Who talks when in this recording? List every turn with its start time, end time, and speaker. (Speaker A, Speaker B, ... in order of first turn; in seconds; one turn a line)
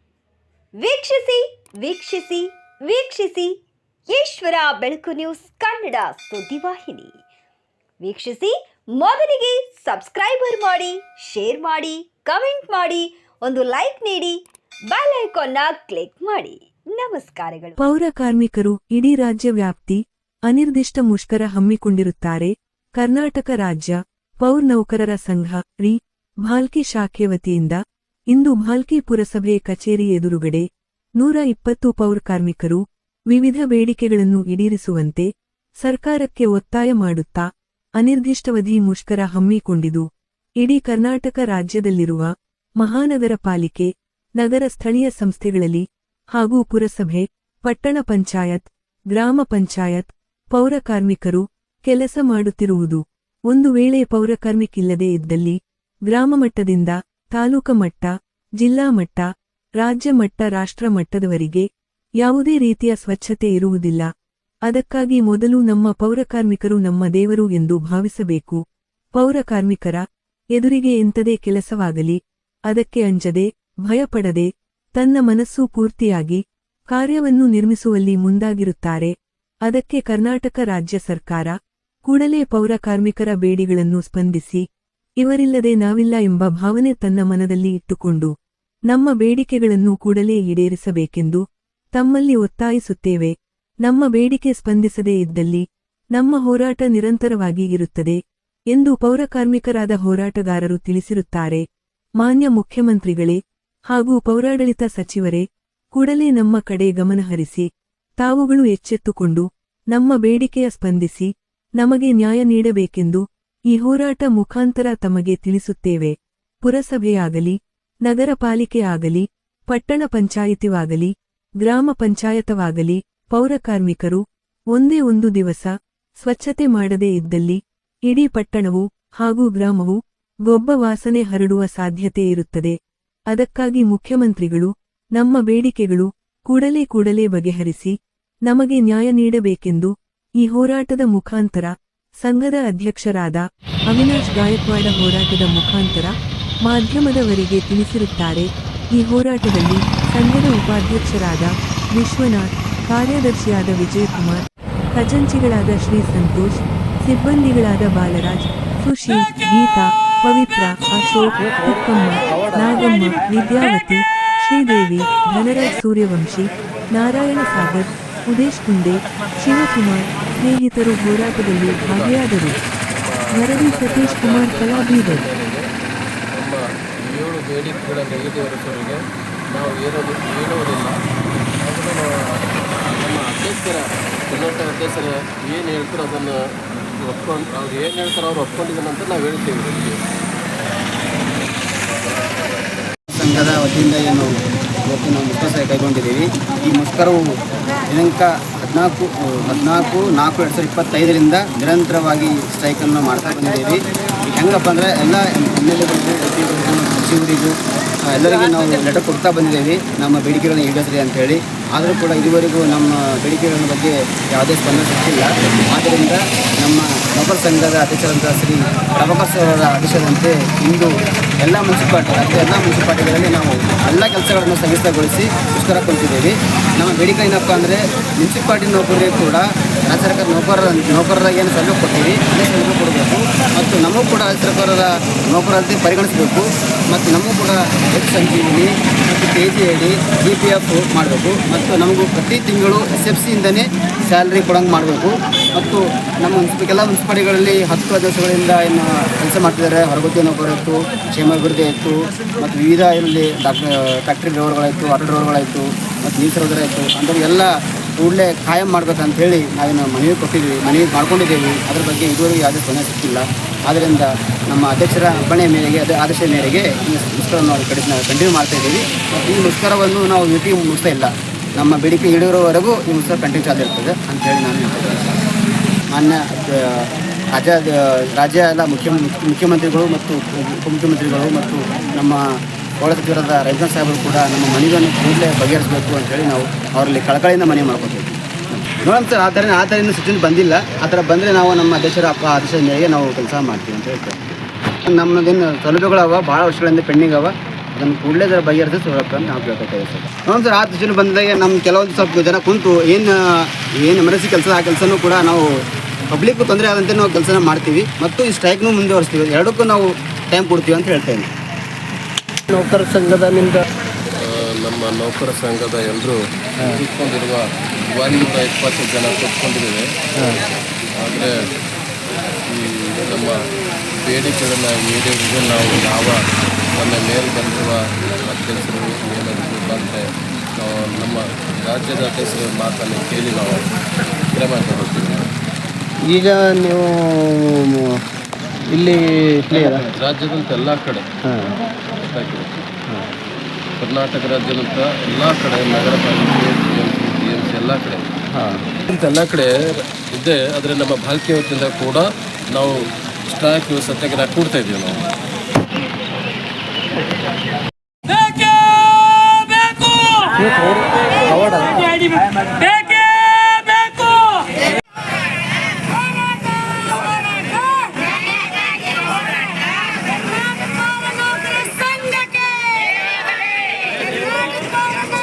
Speaker A: 0.8-3.6
Speaker A: 4.1-7.2
Speaker A: 8.0-17.8
Speaker B: 17.8-27.8
Speaker B: 28.3-30.7
Speaker B: 31.2-35.3
Speaker B: 35.8-37.5
Speaker B: 38.0-40.1
Speaker B: 40.6-43.9
Speaker B: 44.4-45.8
Speaker B: 46.4-59.3
Speaker B: 59.8-61.7
Speaker B: 62.2-64.1
Speaker B: 64.7-68.6
Speaker B: 69.2-70.0
Speaker B: 70.6-79.1
Speaker B: 79.7-81.5
Speaker B: 82.1-84.6
Speaker B: 85.2-88.3
Speaker B: 88.9-91.4
Speaker B: 92.0-93.3
Speaker B: 93.8-95.6
Speaker B: 96.2-98.2
Speaker B: 98.7-101.6
Speaker B: 102.2-103.4
Speaker B: 103.9-107.7
Speaker B: 108.2-124.2
Speaker B: 124.7-132.8
Speaker B: 133.3-137.9
Speaker B: 138.5-146.1
Speaker B: 146.7-172.6
Speaker C: 171.6-175.7
Speaker B: 173.3-175.2
Speaker C: 176.3-180.9
Speaker C: 181.6-190.0
Speaker D: 193.1-194.3
Speaker D: 194.8-197.3
Speaker D: 197.9-207.6
Speaker D: 208.1-275.2
Speaker D: 275.9-282.2
Speaker D: 282.8-305.5
Speaker D: 306.1-311.3
Speaker E: 312.5-313.6
Speaker C: 314.1-319.8
Speaker C: 321.0-321.3
Speaker C: 322.4-323.4
Speaker C: 324.0-326.2
Speaker C: 326.8-333.7
Speaker C: 334.3-335.3
Speaker E: 336.1-338.0
Speaker E: 338.6-339.9
Speaker C: 339.7-341.1
Speaker E: 341.2-341.6
Speaker C: 342.0-342.5
Speaker C: 343.8-348.1
Speaker E: 348.3-348.7
Speaker C: 348.9-355.0
Speaker E: 361.2-361.7